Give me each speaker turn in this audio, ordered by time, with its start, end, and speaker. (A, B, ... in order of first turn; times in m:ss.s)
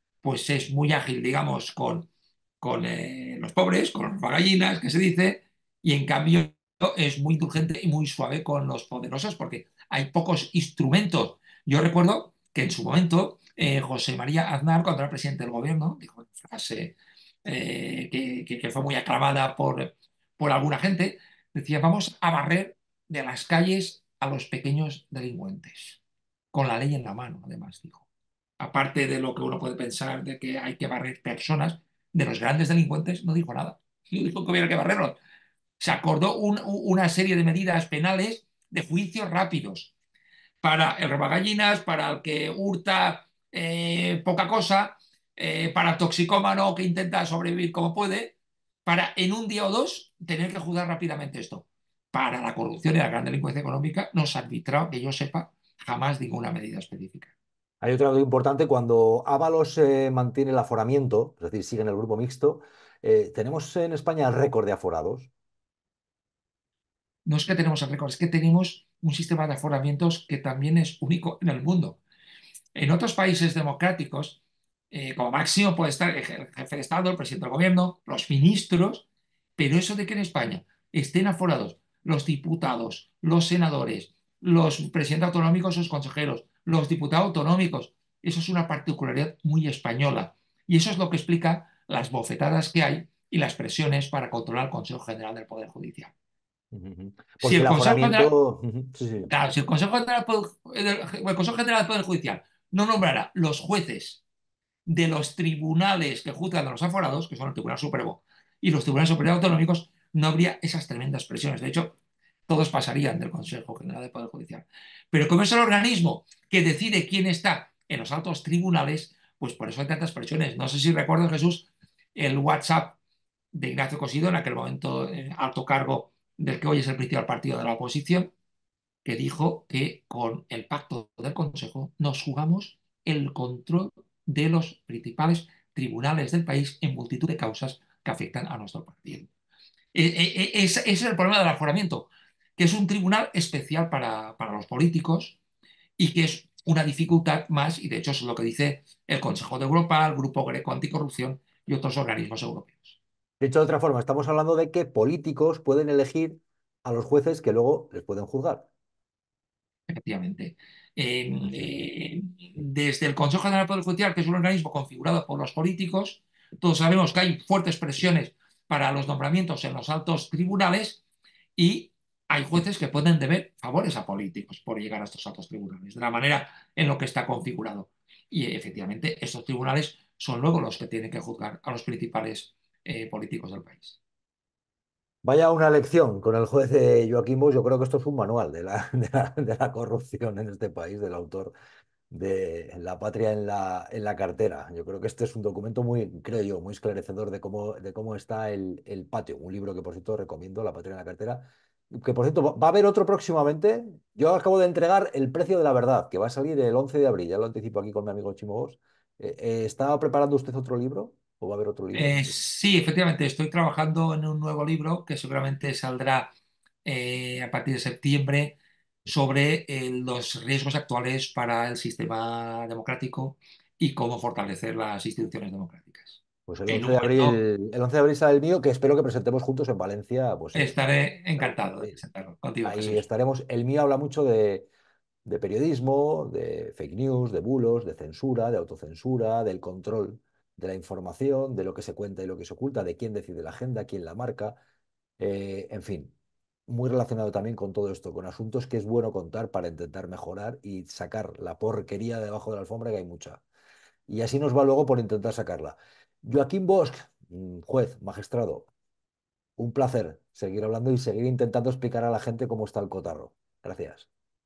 0:00.2-0:02.1 A
0:02.6-0:26.0 A
0:26.5-0:28.1 A
0:28.6-0:35.2 A
0:35.8-0:39.9 A
0:40.6-0:57.3 A
0:57.8-1:05.3 B
1:07.2-1:12.0 A
1:12.7-1:14.4 A
1:14.9-1:19.0 A
1:19.6-1:36.1 A
1:36.7-1:39.3 B
1:37.4-1:38.3 A
1:39.3-1:44.2 A
1:44.8-1:52.0 A
1:52.5-2:03.0 A
2:03.5-2:08.3 A
2:09.0-2:19.3 A
2:19.9-2:25.4 A
2:26.0-2:33.0 A
2:33.4-2:38.7 B
2:39.9-2:51.0 A
2:51.6-3:04.0 A
3:05.2-3:11.5 B
3:12.1-3:32.3 B
3:31.9-3:36.3 A
3:36.8-3:47.4 A
3:46.5-3:50.8 B
3:50.5-3:53.0 A
3:51.4-3:52.0 B
3:52.6-3:54.7 B
3:55.2-4:04.6 B
4:05.2-4:06.1 B
4:06.7-4:13.4 B
4:14.1-4:18.7 B
4:19.6-4:24.1 B